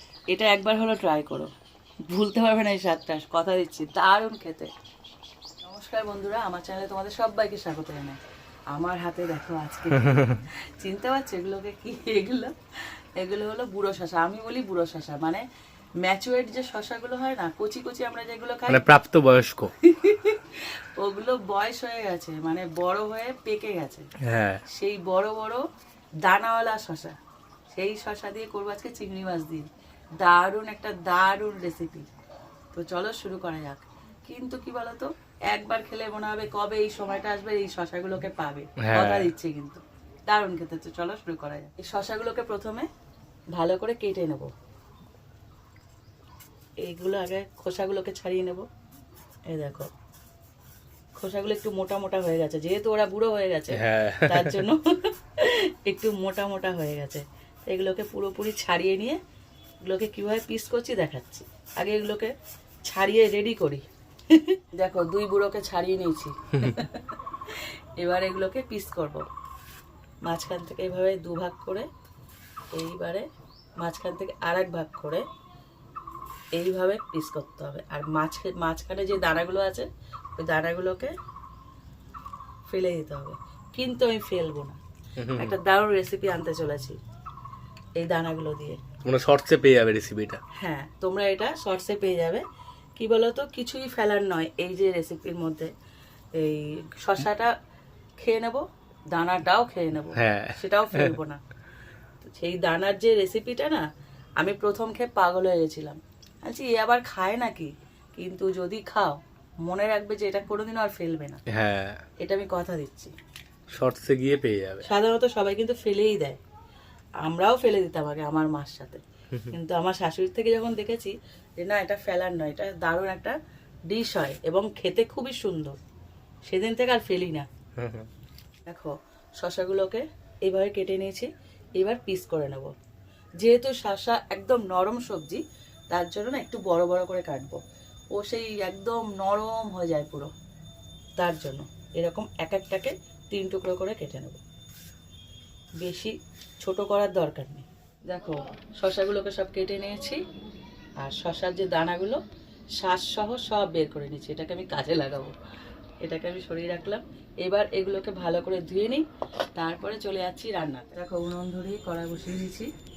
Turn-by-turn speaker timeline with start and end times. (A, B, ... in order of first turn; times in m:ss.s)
0:00.3-0:01.5 A
0:02.1-0:04.7 A
0:05.6-0:08.2 A
0:08.7-0:15.4 A
0:10.1-0:10.4 B
0:16.0-0:18.9 A
0:18.7-0:19.7 B
0:19.8-0:24.1 A
0:24.2-0:24.6 B
0:24.7-0:25.6 A
0:26.2-0:27.2 A
0:27.7-0:29.7 A
0:30.2-0:32.1 A
0:32.7-0:42.9 A
0:38.8-0:39.3 B
0:43.5-0:44.5 A
0:46.8-0:48.6 A
0:49.5-0:49.9 A
0:51.2-0:59.2 A
0:53.7-0:54.6 B
0:59.8-1:02.3 A
1:02.8-1:09.2 A
1:10.2-1:11.9 A
1:12.8-1:13.2 A
1:13.8-1:15.2 A
1:16.6-1:21.1 A
1:22.7-1:24.8 A
1:25.2-1:25.6 B
1:25.3-1:27.0 A
1:28.0-1:28.8 A
1:29.0-1:30.4 B
1:30.6-1:32.4 A
1:33.0-1:35.7 A
1:36.4-1:37.5 A
1:38.2-1:41.4 A
1:40.2-1:41.1 B
1:42.2-1:43.8 A
1:44.4-1:51.4 A
1:51.5-1:52.0 B
1:52.2-1:53.1 A
1:53.7-1:54.8 B
1:54.8-1:56.4 A
1:57.2-2:03.4 A
2:03.9-2:05.8 A
2:06.4-2:07.5 A
2:07.8-2:08.1 B
2:08.7-2:12.7 A
2:13.4-2:17.6 A
2:18.1-2:20.3 A
2:21.2-2:24.4 A
2:25.8-2:30.2 A
2:31.0-2:32.2 A
2:32.8-2:35.3 A
2:36.0-2:39.0 A
2:39.6-2:42.7 A